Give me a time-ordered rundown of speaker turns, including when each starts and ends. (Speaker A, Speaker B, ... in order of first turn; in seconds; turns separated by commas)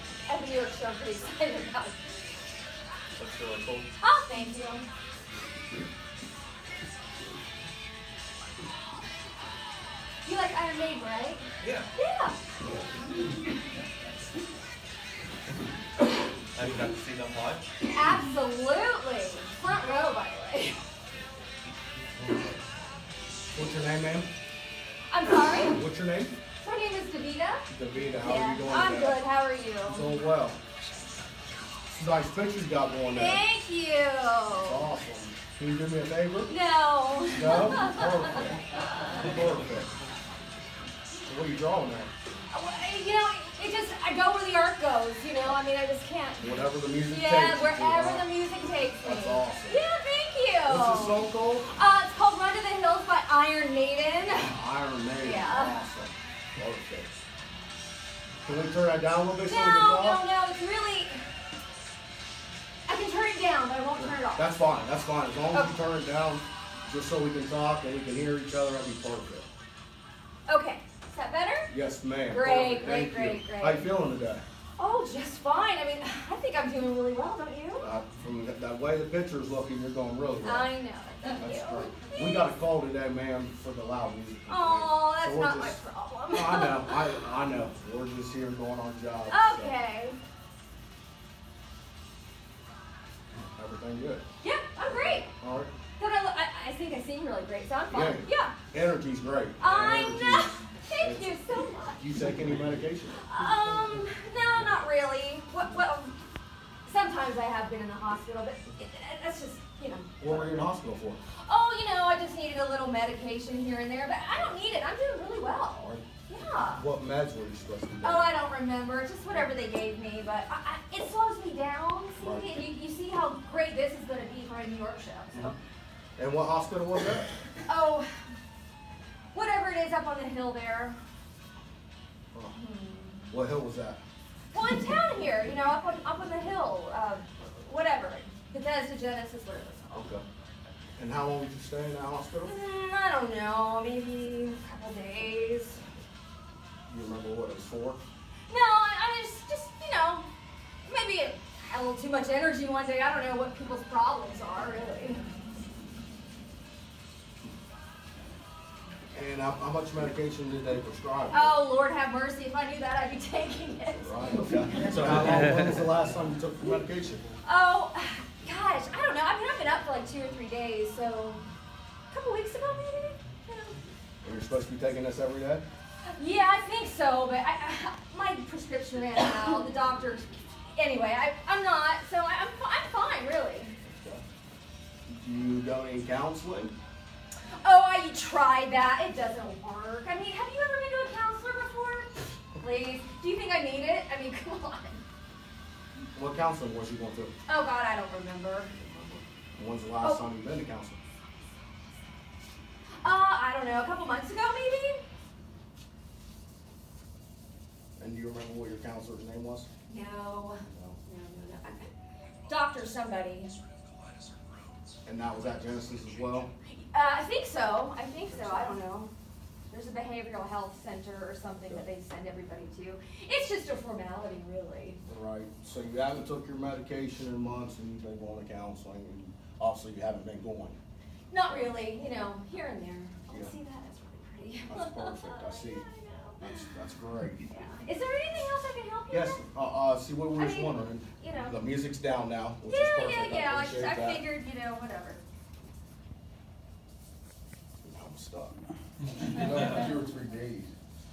Speaker A: 0.3-2.1, Speaker B: 3.2-3.9, Speaker A: 4.0-4.9, Speaker A: 10.2-12.4, Speaker B: 11.6-11.9, Speaker B: 16.5-17.7, Speaker C: 16.6-16.9, Speaker A: 17.9-20.8, Speaker C: 22.2-22.5, Speaker C: 23.5-24.3, Speaker A: 25.1-25.8, Speaker C: 25.7-26.4, Speaker A: 26.6-30.1, Speaker C: 27.7-29.2, Speaker C: 29.8-30.6, Speaker C: 31.9-33.4, Speaker A: 33.1-34.9, Speaker C: 34.5-36.5, Speaker A: 36.5-39.2, Speaker C: 37.2-39.9, Speaker C: 41.3-42.1, Speaker A: 42.5-54.6, Speaker C: 46.4-48.3, Speaker C: 49.0-49.8, Speaker C: 50.6-51.7, Speaker C: 54.4-57.2, Speaker A: 55.2-55.8, Speaker C: 58.4-60.2, Speaker A: 59.5-61.2, Speaker A: 62.9-64.5, Speaker C: 64.0-69.5, Speaker A: 65.5-65.8, Speaker A: 70.5-71.7, Speaker C: 71.7-74.5, Speaker A: 72.2-73.9, Speaker A: 74.8-77.9, Speaker C: 77.8-80.7, Speaker A: 80.4-82.4, Speaker C: 81.4-89.8, Speaker A: 84.5-87.3, Speaker A: 89.3-90.2, Speaker C: 93.6-94.2, Speaker A: 94.4-95.3, Speaker C: 94.9-95.7, Speaker A: 96.0-98.6, Speaker C: 97.9-101.3, Speaker A: 99.6-102.4, Speaker C: 102.0-103.2, Speaker A: 103.2-106.2, Speaker A: 106.9-110.5, Speaker C: 110.2-111.2, Speaker A: 111.4-116.9, Speaker C: 115.8-116.0, Speaker C: 116.7-118.3, Speaker A: 118.0-125.6, Speaker C: 122.2-122.7, Speaker C: 126.2-127.3, Speaker A: 127.7-128.2, Speaker A: 129.3-131.0, Speaker A: 132.5-133.3, Speaker C: 133.3-134.0, Speaker A: 134.5-140.1, Speaker C: 139.9-140.2, Speaker C: 141.0-142.5, Speaker A: 142.4-145.8, Speaker C: 146.9-148.0, Speaker A: 148.5-150.3, Speaker A: 150.9-155.2, Speaker C: 159.1-161.6, Speaker A: 161.3-165.5, Speaker C: 163.9-167.3, Speaker A: 167.4-171.4, Speaker A: 172.1-173.8, Speaker C: 174.2-175.6, Speaker A: 176.2-183.7, Speaker C: 183.9-184.2, Speaker C: 185.1-186.7, Speaker A: 187.6-195.0, Speaker C: 196.2-197.3, Speaker A: 197.5-198.7, Speaker C: 198.8-201.0, Speaker A: 203.0-205.0, Speaker C: 208.0-209.7, Speaker A: 209.9-211.9, Speaker C: 210.7-211.0, Speaker A: 212.5-213.6, Speaker C: 215.1-216.5, Speaker A: 216.8-219.1, Speaker C: 218.2-218.7, Speaker A: 219.7-225.0, Speaker C: 225.1-230.8, Speaker A: 231.3-236.7, Speaker C: 233.3-233.6, Speaker C: 234.7-235.9, Speaker C: 236.4-237.5, Speaker A: 237.5-239.5, Speaker C: 239.1-244.3, Speaker A: 240.3-241.6, Speaker A: 242.7-245.2, Speaker C: 247.9-248.6, Speaker C: 249.1-250.7, Speaker B: 249.4-250.0